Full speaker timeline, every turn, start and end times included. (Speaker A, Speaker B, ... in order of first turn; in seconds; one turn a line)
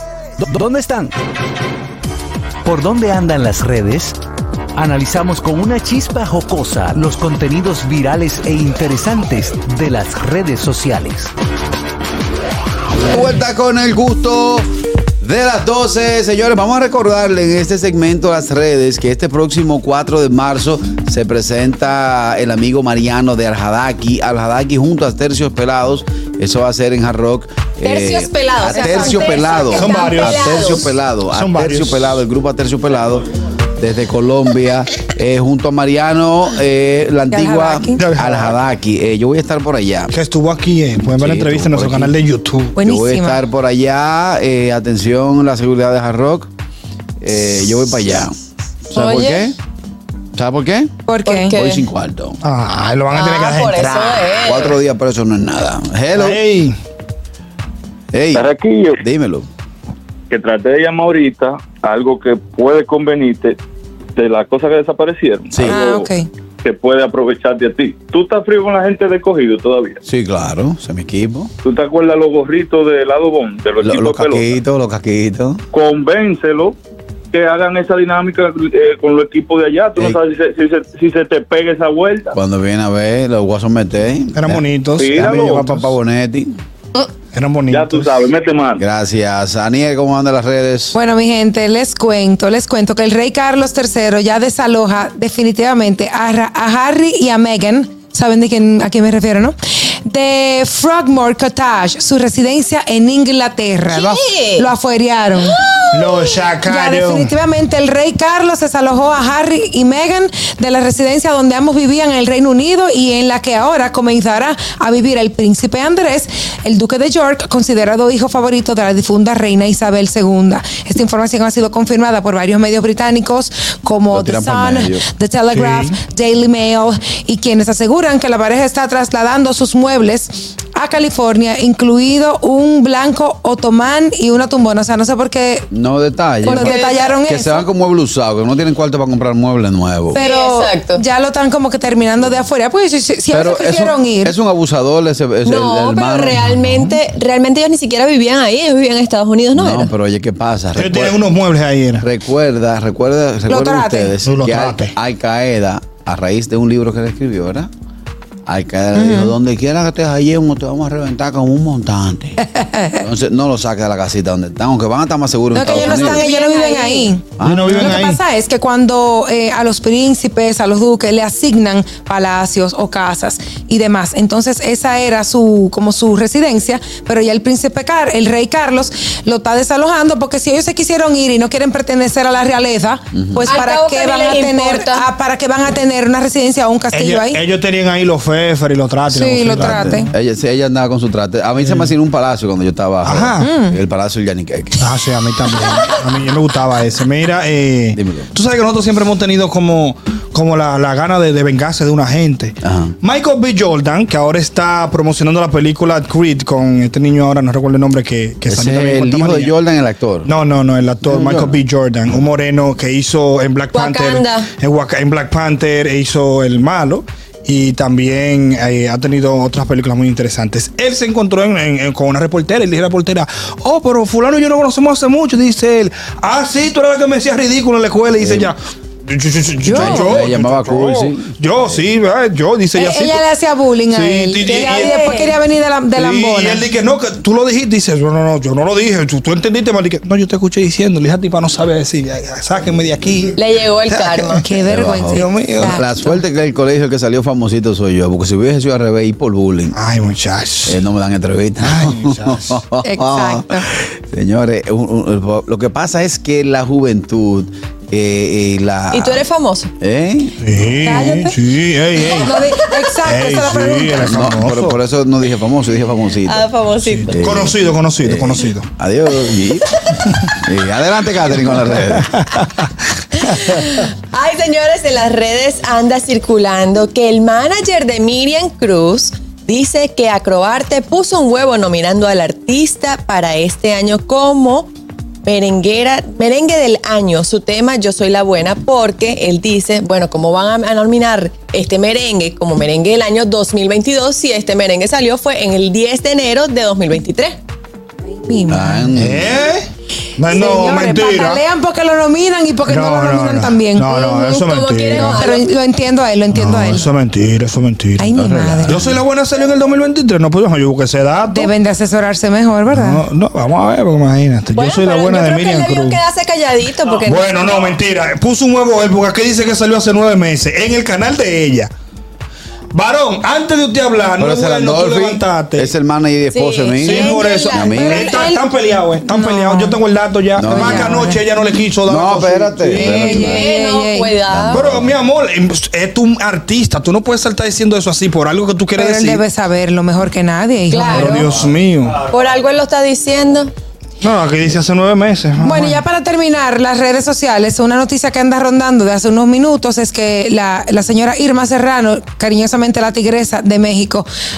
Speaker A: 0.4-1.1
Speaker A: 2.6-4.2
Speaker A: 4.8-11.3
Speaker B: 13.1-14.7
Speaker B: 15.2-40.1
Speaker C: 27.8-30.9
Speaker D: 29.7-30.7
Speaker D: 31.3-32.0
Speaker E: 37.3-38.0
Speaker D: 38.0-38.5
Speaker D: 40.1-42.8
Speaker B: 41.0-42.2
Speaker E: 42.8-43.4
Speaker B: 42.8-46.5
Speaker B: 47.2-48.4
Speaker B: 48.9-49.6
Speaker C: 48.9-49.5
Speaker B: 50.4-50.9
Speaker E: 51.1-51.5
Speaker C: 51.2-51.9
Speaker B: 51.5-52.4
Speaker D: 52.4-54.3
Speaker C: 53.1-54.8
Speaker B: 54.5-56.4
Speaker D: 56.2-56.8
Speaker B: 58.1-59.5
Speaker F: 58.4-59.0
Speaker F: 60.3-63.6
Speaker F: 64.2-66.1
Speaker B: 65.5-65.8
Speaker E: 65.6-66.3
Speaker F: 66.6-70.0
Speaker B: 70.1-71.5
Speaker F: 71.6-74.5
Speaker B: 73.8-75.6
Speaker F: 75.7-76.8
Speaker F: 77.3-82.3
Speaker B: 82.3-86.5
Speaker D: 84.4-85.9
Speaker F: 85.0-85.7
Speaker D: 87.3-88.2
Speaker F: 87.7-88.8
Speaker B: 88.8-91.0
Speaker E: 90.9-105.6
Speaker C: 103.9-104.7
Speaker C: 105.4-106.3
Speaker D: 105.9-107.3
Speaker E: 106.7-135.7
Speaker B: 124.1-125.0
Speaker D: 125.5-126.0
Speaker B: 135.7-140.2
Speaker C: 136.4-137.1
Speaker E: 136.4-137.7
Speaker E: 140.1-144.4
Speaker C: 140.1-141.0
Speaker B: 143.3-146.4
Speaker C: 145.4-149.9
Speaker D: 146.6-146.9
Speaker B: 149.6-151.2
Speaker D: 150.8-152.1
Speaker B: 152.0-157.7
Speaker E: 153.5-154.2
Speaker D: 154.2-154.9
Speaker B: 158.5-162.4
Speaker E: 159.0-159.3
Speaker E: 162.6-163.0
Speaker B: 162.9-166.3
Speaker E: 165.5-187.4
Speaker C: 165.6-167.1
Speaker B: 167.4-168.0
Speaker D: 167.4-168.2
Speaker B: 183.1-183.5
Speaker C: 183.5-185.1
Speaker D: 186.9-190.1
Speaker E: 189.1-190.1
Speaker B: 190.1-194.9
Speaker D: 191.6-191.9
Speaker D: 193.1-193.5
Speaker E: 193.4-193.8
Speaker D: 194.8-209.5
Speaker B: 197.9-198.3
Speaker B: 202.6-202.9
Speaker B: 208.5-210.3
Speaker D: 210.3-233.2
Speaker B: 211.1-211.6
Speaker C: 213.7-214.5
Speaker B: 228.2-228.5
Speaker E: 229.6-230.1
Speaker B: 229.7-231.3
Speaker E: 232.8-236.7
Speaker D: 233.9-235.0
Speaker C: 234.4-235.4
Speaker D: 236.0-244.5
Speaker C: 243.4-244.4
Speaker E: 244.4-246.2
Speaker B: 244.7-249.8
Speaker D: 245.1-245.8
Speaker D: 249.8-250.8
Speaker B: 250.7-259.3
Speaker D: 251.6-252.6
Speaker E: 252.8-253.7
Speaker C: 258.9-259.7
Speaker B: 259.8-260.4
Speaker D: 260.4-262.3
Speaker E: 260.8-261.4
Speaker E: 262.1-264.1
Speaker D: 263.1-264.8
Speaker B: 264.0-266.5
Speaker C: 266.2-267.2
Speaker D: 266.8-268.7
Speaker B: 267.1-269.8
Speaker B: 270.4-272.2
Speaker C: 273.2-284.7
Speaker C: 285.2-297.4
Speaker E: 298.1-299.0
Speaker B: 298.5-299.4
Speaker D: 299.0-299.6
Speaker D: 300.2-301.4
Speaker E: 300.3-303.9
Speaker D: 302.7-305.2
Speaker C: 303.9-305.5
Speaker E: 304.9-306.9
Speaker D: 306.3-311.5
Speaker E: 308.0-308.9
Speaker B: 308.1-309.0
Speaker E: 311.3-313.0
Speaker D: 312.7-316.0
Speaker C: 314.5-317.8
Speaker D: 317.0-321.7
Speaker D: 322.7-325.7
Speaker B: 324.2-328.0
Speaker C: 326.3-328.0
Speaker D: 326.8-333.0
Speaker E: 326.9-329.8
Speaker B: 330.4-331.0
Speaker E: 330.5-331.3
Speaker B: 331.9-333.5
Speaker E: 332.7-334.1
Speaker C: 333.1-334.7
Speaker B: 334.3-334.9
Speaker D: 334.5-339.2
Speaker E: 338.8-341.2
Speaker C: 340.7-341.4
Speaker D: 340.9-342.1
Speaker C: 342.1-343.5
Speaker D: 344.0-345.8
Speaker E: 345.4-354.1